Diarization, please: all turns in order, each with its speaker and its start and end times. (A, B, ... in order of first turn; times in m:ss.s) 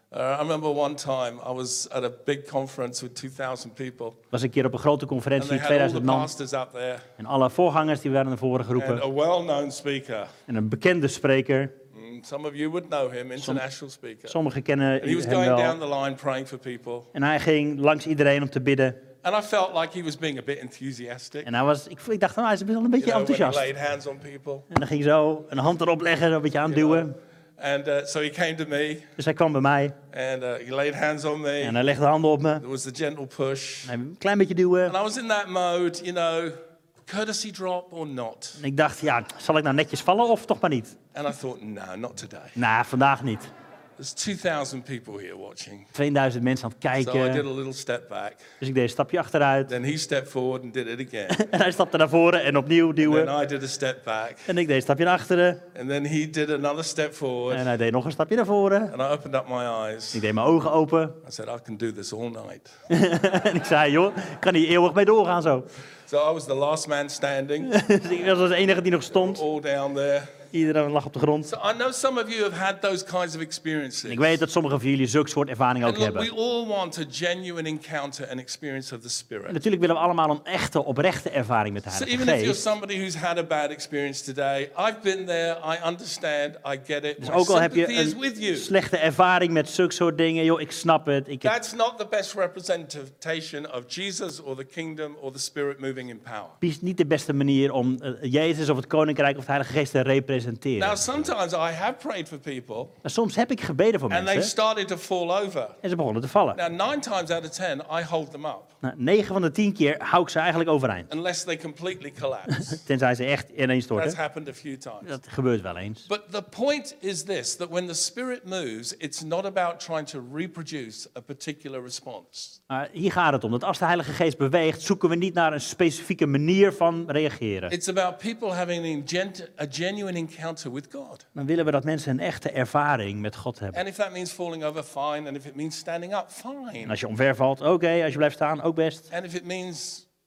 0:00.1-0:04.2 A
0:04.3-0:06.3 B
0:05.4-0:07.1 A
0:07.2-0:09.0 B
0:08.8-0:10.3 A
0:10.5-0:11.8 B
0:11.9-0:14.4 A
0:14.3-0:15.8 B
0:15.0-0:17.1 A
0:17.1-0:19.0 B
0:19.2-0:21.5 A
0:21.4-0:23.7 B
0:23.0-0:24.7 A
0:24.7-0:27.1 B
0:26.7-0:29.1 A
0:29.2-0:30.0 B
0:30.1-0:31.8 A
0:31.6-0:32.6 B
0:32.6-0:33.9 A
0:33.8-0:35.0 B
0:34.9-0:38.6 A
0:38.6-0:41.0 B
0:41.1-0:42.6 A
0:42.6-0:43.5 B
0:44.0-0:45.9 A
0:45.9-0:47.4 B
0:47.0-0:48.4 A
0:48.6-0:49.7 B
0:49.6-0:51.4 A
0:51.3-0:53.3 B
0:53.0-0:54.5 A
0:54.4-0:55.6 B
0:55.7-0:57.7 A
0:57.5-0:58.9 B
0:58.9-1:00.2 A
1:00.1-1:01.2 B
1:01.2-1:02.7 A
1:02.9-1:05.7 B
1:06.1-1:07.7 A
1:07.6-1:09.4 B
1:09.1-1:10.3 A
1:10.5-1:11.5 B
1:11.4-1:14.4 A
1:14.1-1:16.3 B
1:15.8-1:19.6 A
1:19.5-1:22.6 B
1:21.9-1:28.7 A
1:27.2-1:31.5 B
1:31.4-1:36.6 A
1:36.6-1:41.0 B
1:40.8-1:43.0 A
1:43.0-1:44.5 B
1:44.1-1:45.8 A
1:45.8-1:46.6 B
1:46.5-1:48.7 A
1:48.8-1:51.1 B
1:51.1-1:52.8 A
1:52.5-1:54.2 B
1:53.9-1:55.2 A
1:55.0-1:56.0 B
1:56.0-2:02.6 A
2:02.7-2:07.7 B
2:07.7-2:11.2 A
2:11.3-2:13.8 B
2:13.7-2:17.0 A
2:16.8-2:19.1 B
2:19.1-2:20.0 A